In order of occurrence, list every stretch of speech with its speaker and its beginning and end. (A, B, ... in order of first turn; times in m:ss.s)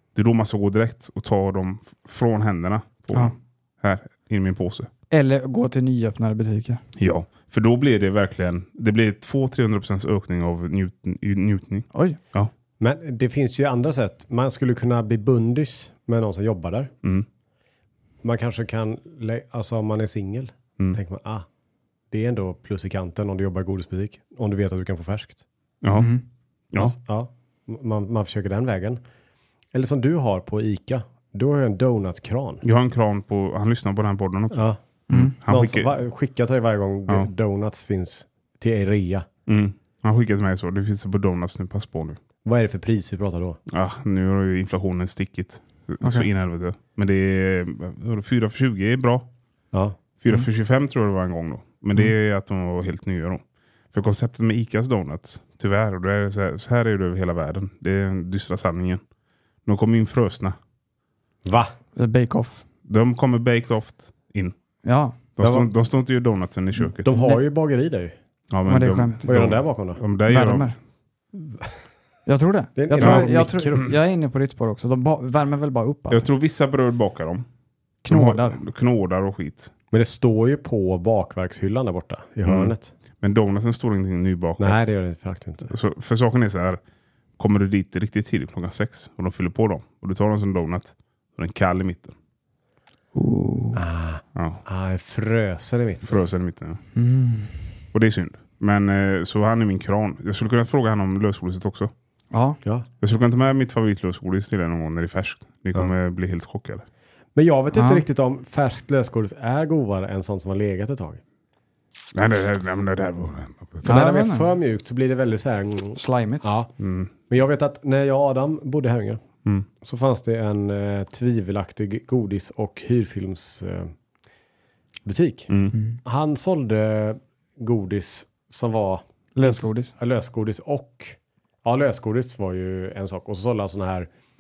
0:00.2-0:04.9 A
0:05.1-0:06.8 B
0:07.0-0:12.5 A
0:11.9-0:12.2 B
0:12.8-0:16.9 C
0:18.2-0:21.5 C
0:22.1-0:25.4 C
0:25.8-0:26.1 A
0:26.0-0:26.2 B
0:26.8-0:29.0 C
0:29.7-0:32.6 C
0:32.6-0:35.9 A
0:34.5-0:34.8 C
0:35.1-0:35.4 B
0:35.4-0:39.3 C
0:39.5-0:42.2 A
0:42.4-0:43.6 C
0:43.7-0:49.3 A
0:46.0-0:46.3 B
0:49.7-0:50.0 C
0:50.2-0:59.0 A
0:59.7-1:00.6 A
1:01.4-1:01.8 C
1:02.0-1:02.6 B
1:02.9-1:04.6 A
1:04.8-1:05.2 B
1:05.4-1:07.1 A
1:05.4-1:05.7 C
1:07.0-1:08.2 C
1:07.1-1:07.4 B
1:08.5-1:10.7 A
1:08.7-1:09.4 B
1:09.3-1:10.0 C
1:10.3-1:10.8 B
1:12.3-1:16.3 B
1:12.8-1:13.9 C
1:13.0-1:13.9 A
1:16.1-1:17.5 A
1:18.0-1:18.6 B
1:18.1-1:19.7 A
1:19.9-1:22.9 C
1:22.4-1:24.9 A
1:24.6-1:25.7 C
1:25.7-1:26.8 A
1:27.4-1:32.2 A
1:33.2-1:33.8 B
1:33.7-1:36.2 C
1:34.4-1:34.6 A
1:36.1-1:36.8 A
1:37.0-1:37.6 B
1:37.9-1:41.9 A
1:42.3-1:42.6 B
1:42.6-1:42.9 C
1:43.0-1:46.9 A
1:47.4-1:51.2 C
1:47.7-1:48.0 B
1:52.1-1:53.8 A
1:53.8-1:54.5 B
1:53.8-1:56.7 C
1:56.0-1:56.5 B
1:56.8-1:57.1 A
1:57.3-1:59.2 C
1:59.8-2:03.9 C
2:05.0-2:14.1 C
2:05.5-2:05.8 A
2:05.7-2:06.0 B
2:09.4-2:09.9 B